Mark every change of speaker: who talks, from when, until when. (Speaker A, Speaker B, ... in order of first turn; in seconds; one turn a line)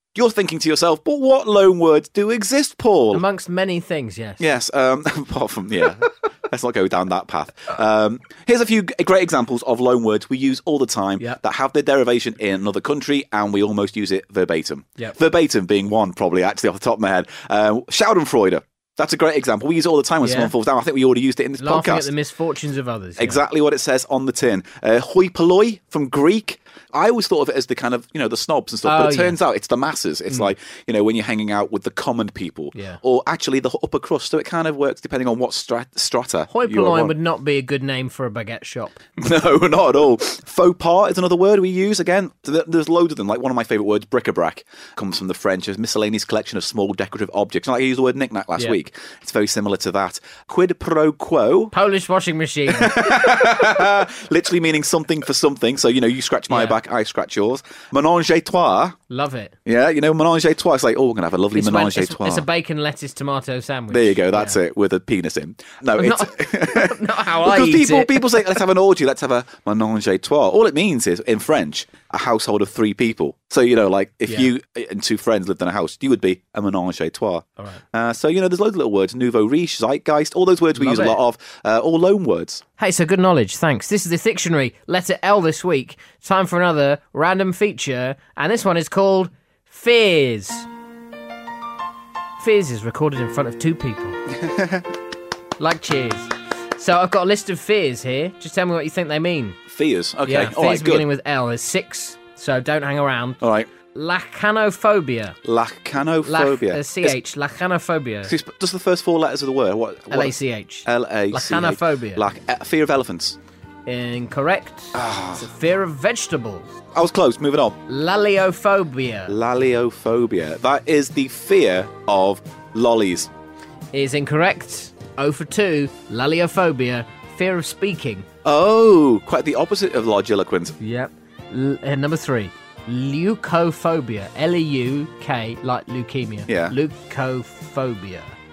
Speaker A: 0.1-3.2
Speaker B: 3.1-4.5
Speaker A: 4.4-22.1
Speaker B: 20.2-20.5
Speaker B: 21.6-23.4
Speaker A: 23.2-37.1
Speaker B: 28.8-29.4
Speaker B: 36.5-39.0
Speaker A: 39.2-51.7
Speaker B: 51.7-53.0
Speaker A: 52.7-59.0
Speaker B: 56.5-56.8
Speaker B: 59.1-59.5
Speaker A: 59.6-62.4
Speaker B: 61.5-64.6
Speaker A: 63.9-82.6
Speaker B: 66.0-68.5
Speaker B: 80.8-81.2
Speaker B: 82.8-90.7
Speaker B: 92.4-94.2
Speaker A: 94.4-94.9
Speaker B: 95.6-99.6
Speaker A: 99.7-101.1
Speaker B: 100.2-103.4
Speaker A: 103.4-103.7
Speaker B: 103.9-105.4
Speaker A: 105.4-107.2
Speaker B: 106.2-108.3
Speaker A: 108.3-110.3
Speaker B: 110.1-112.2
Speaker A: 110.8-113.4
Speaker B: 113.8-116.7
Speaker A: 114.9-115.5
Speaker A: 116.9-117.8
Speaker B: 117.9-119.3
Speaker A: 119.3-123.3
Speaker B: 123.9-128.2
Speaker A: 128.4-130.8
Speaker B: 130.8-138.3
Speaker A: 136.5-136.8